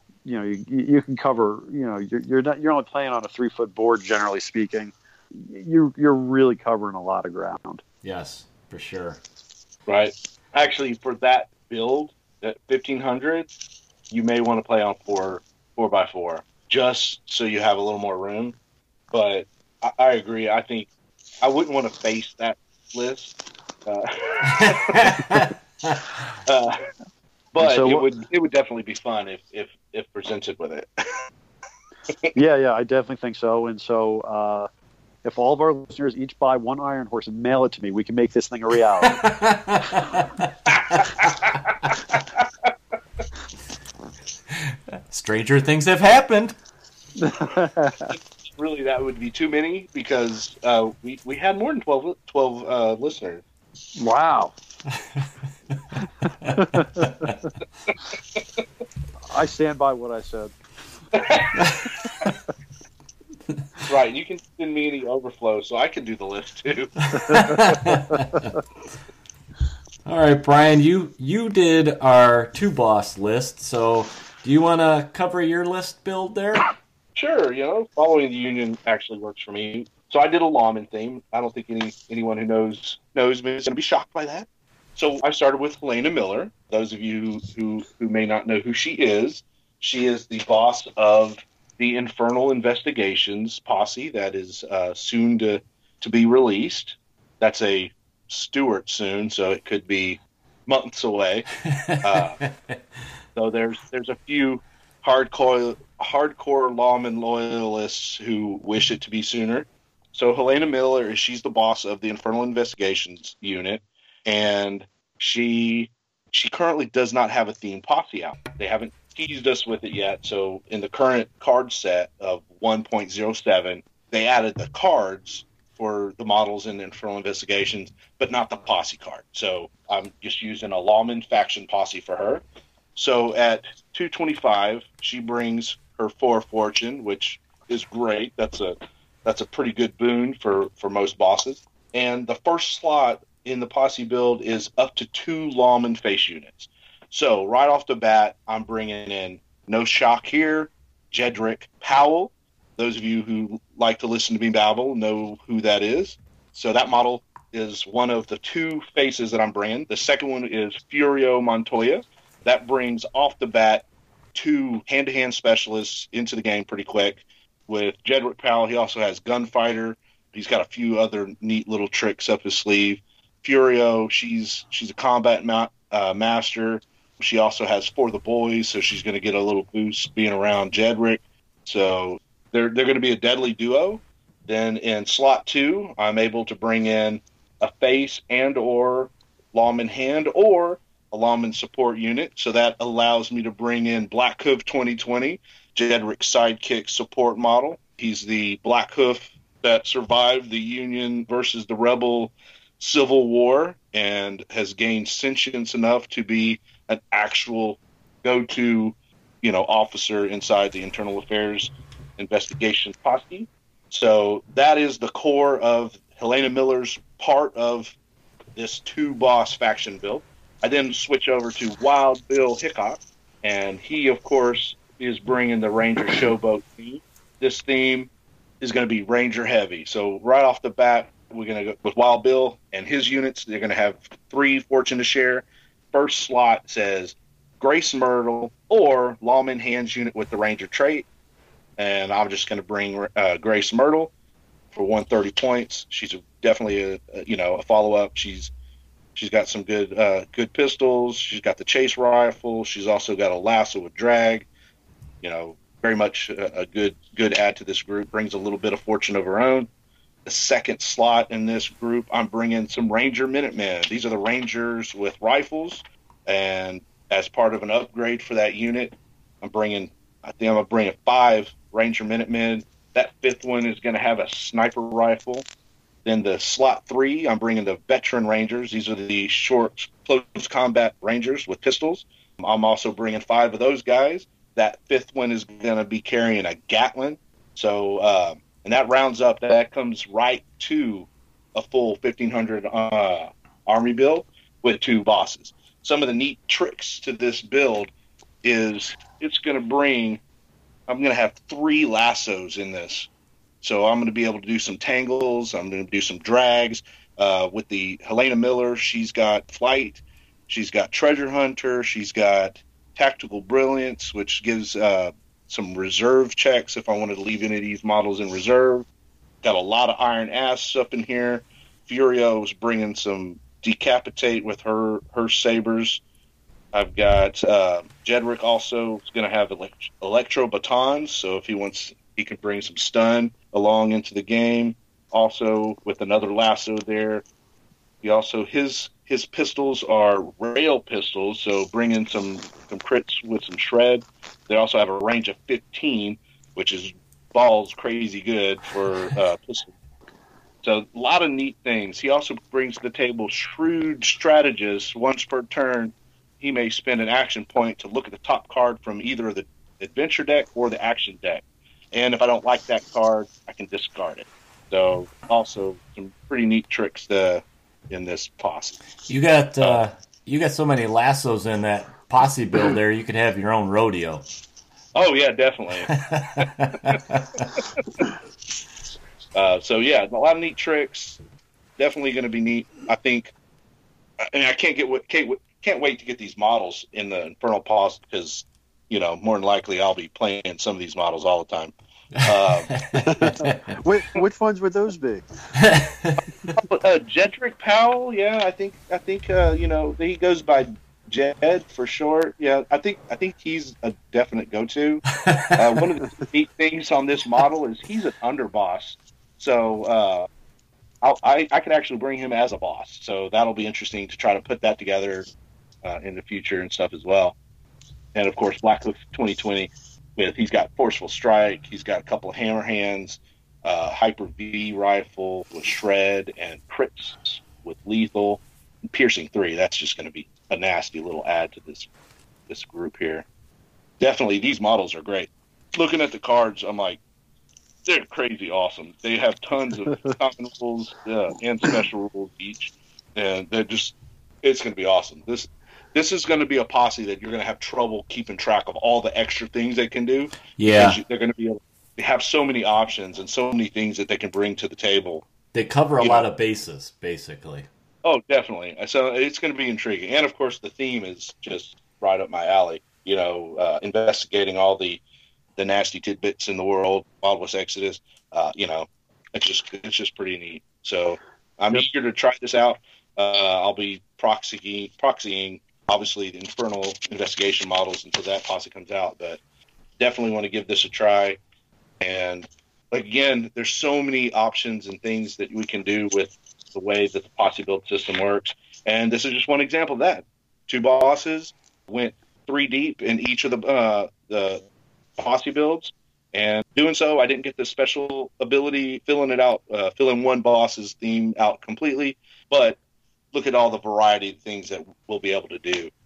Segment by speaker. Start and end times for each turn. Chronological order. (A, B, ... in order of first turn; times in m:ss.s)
0:00.2-0:07.8 A
0:08.0-0:09.2 B
0:09.9-0:13.5 C
0:14.1-0:18.6 C
0:19.1-0:20.9 C
0:21.4-0:23.3 C
0:23.9-0:25.2 C
0:24.5-0:26.0 B
0:26.5-0:26.8 C
0:27.5-0:31.3 C
0:27.6-0:28.1 A
0:32.3-0:34.7 A
0:35.2-0:39.2 A
0:39.0-0:41.0 B
0:40.7-0:42.7 C
0:45.1-0:46.6 B
0:47.2-0:48.2 A
0:48.1-0:53.4 C
0:54.0-0:54.5 A
0:56.4-0:57.3 B
0:56.5-0:57.3 A
0:58.4-0:58.6 C
0:59.3-1:00.5 A
1:01.2-1:01.6 C
1:01.6-1:02.1 B
1:03.9-1:06.9 C
1:07.1-1:08.5 B
1:10.1-1:16.7 B
1:17.2-1:41.5 C
1:41.7-1:42.8 B
1:42.0-1:42.4 C
1:43.4-2:12.4 C
2:13.0-3:38.0 C
3:38.6-3:48.1 C
3:48.6-4:01.1 C
4:01.8-4:04.1 C
4:04.7-4:08.5 C
4:09.2-4:14.5 C
4:15.2-4:19.7 C
4:20.3-4:35.5 C
4:36.0-4:57.9 C
4:58.4-5:00.2 C
5:00.9-5:03.1 C
5:03.6-5:18.9 C
5:19.4-5:26.0 C
5:26.7-5:37.2 C
5:38.0-5:49.7 C
5:50.6-6:08.8 C
6:09.1-6:14.2 B
6:15.0-6:15.9 C
6:15.9-6:17.6 B
6:19.3-6:21.2 C
6:21.8-6:23.3 C
6:24.2-6:32.7 C
6:32.7-6:33.8 B
6:33.1-6:35.3 A
6:35.6-6:36.2 B
6:36.5-6:45.0 C
6:45.3-6:45.6 B
6:45.6-6:50.3 C
6:51.0-6:55.3 C
6:55.8-6:57.4 C
6:58.1-7:11.9 C
7:12.5-7:13.3 C
7:14.0-7:17.0 C
7:17.9-7:35.2 C
7:30.6-7:31.0 B
7:35.5-7:37.7 B
7:36.0-7:36.2 C
7:38.0-7:45.0 C
7:45.6-7:59.4 C
8:00.0-8:01.4 C
8:02.0-8:14.7 C
8:15.2-8:22.8 C
8:23.3-8:25.9 C